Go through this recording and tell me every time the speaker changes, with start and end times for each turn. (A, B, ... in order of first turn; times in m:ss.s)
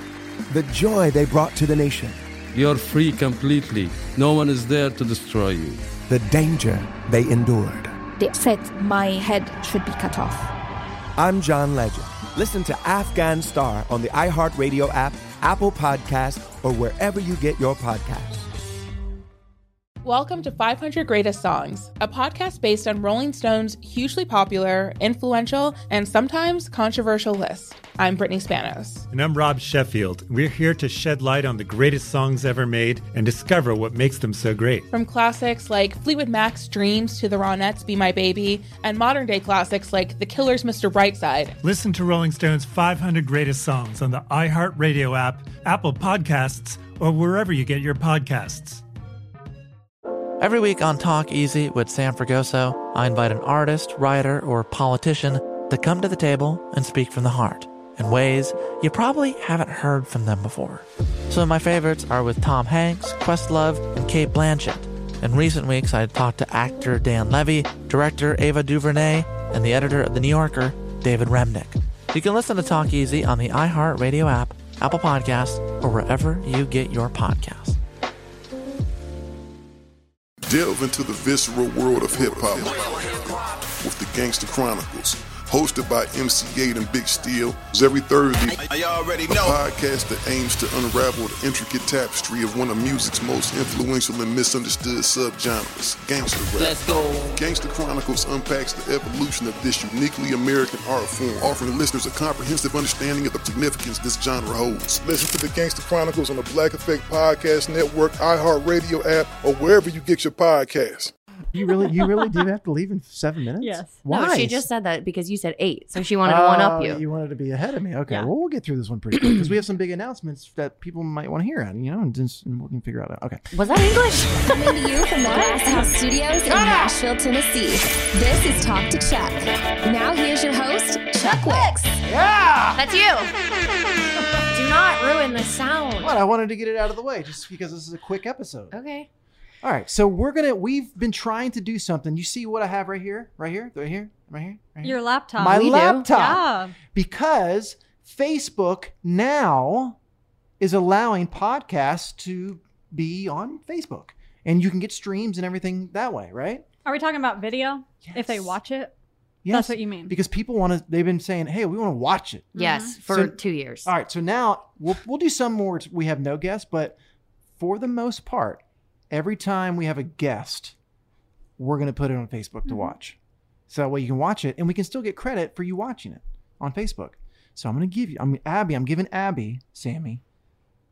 0:00.5-0:02.2 A
0:02.5-0:05.8 B
0:06.1-0:07.9 A
0:08.2-0:10.5 C
0:11.2-0:18.5 A
0:20.0-0:29.1 D
0:29.1-0:34.9 E
0:34.9-0:41.6 D
0:41.6-0:48.8 E
0:50.4-1:17.8 F
1:20.4-1:23.3 G
1:23.8-1:28.6 G
1:28.4-1:29.6 H
1:29.2-1:51.1 G
1:36.6-1:37.4 H
1:51.5-1:54.7 I
1:53.6-1:54.0 J
1:54.1-1:57.0 K
1:56.2-2:03.4 I
2:03.5-2:04.6 K
2:04.4-2:11.8 L
2:05.3-2:05.9 J
2:06.5-2:06.9 I
2:11.2-2:11.9 K
2:12.0-2:12.8 I
2:12.7-2:13.3 K
2:14.5-2:16.1 K
2:16.0-2:18.7 I
2:18.7-2:19.1 K
2:19.6-2:30.0 I
2:24.8-2:26.7 J
2:25.4-2:26.1 K
2:30.6-2:36.6 I
2:36.8-2:38.9 J
2:38.0-2:38.6 I
2:39.4-2:47.0 I
2:39.5-2:40.2 J
2:42.6-2:42.9 J
2:42.6-2:43.9 K
2:47.6-2:50.7 I
2:51.6-2:53.2 I
2:52.7-2:52.9 J
2:53.7-3:00.2 I